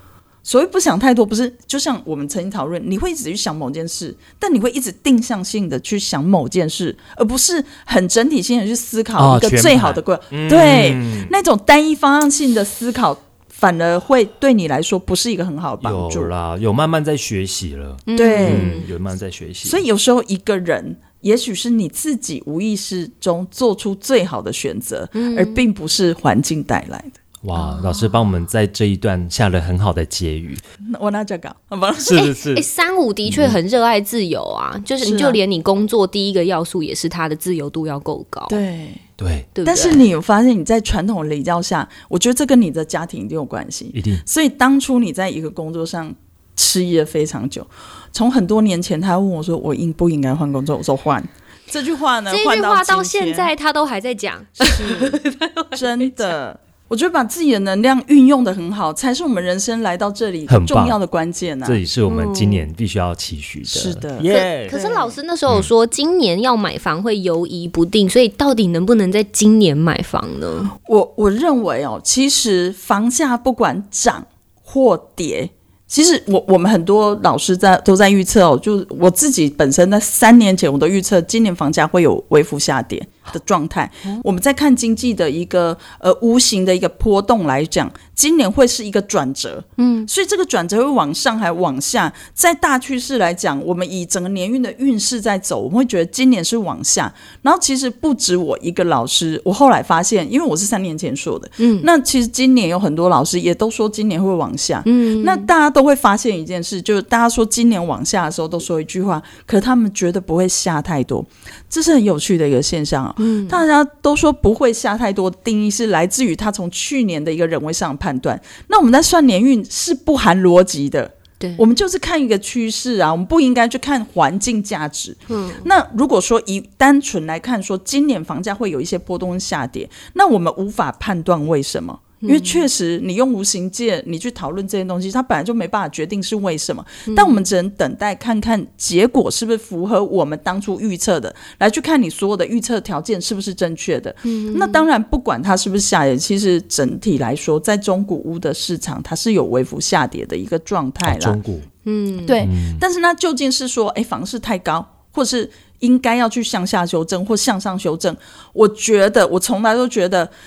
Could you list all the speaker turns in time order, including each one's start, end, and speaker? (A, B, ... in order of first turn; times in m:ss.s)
0:00.4-0:16.3 A
0:09.2-0:11.3 B
0:15.8-0:19.8 B
0:18.1-0:18.9 C
0:18.1-0:18.8 A
0:19.6-0:27.2 A
0:25.1-0:25.6 C
0:27.4-0:30.6 B
0:27.5-0:28.1 C
0:30.8-0:32.3 A
0:32.0-0:32.6 B
0:32.1-0:38.6 C
0:33.2-0:33.6 B
0:35.0-0:35.4 A
0:38.5-0:39.0 A
0:39.2-0:39.5 B
0:39.6-0:40.0 C
0:39.6-0:53.5 A
0:43.9-0:44.2 B
0:52.3-0:56.1 C
0:54.6-0:55.2 A
0:55.7-1:01.8 A
1:00.5-1:01.0 B
1:01.6-1:04.7 B
1:02.1-1:02.7 C
1:03.7-1:05.2 A
1:04.3-1:10.7 C
1:10.7-2:31.4 A
1:29.8-1:30.1 C
1:41.6-1:41.9 C
1:44.8-1:45.5 C
1:53.2-1:53.6 C
2:05.3-2:05.6 C
2:12.2-2:12.6 C
2:17.1-2:17.5 C
2:24.2-2:24.8 C
2:31.0-2:31.7 B
2:31.8-2:32.4 C
2:32.2-2:40.3 A
2:32.4-2:32.8 B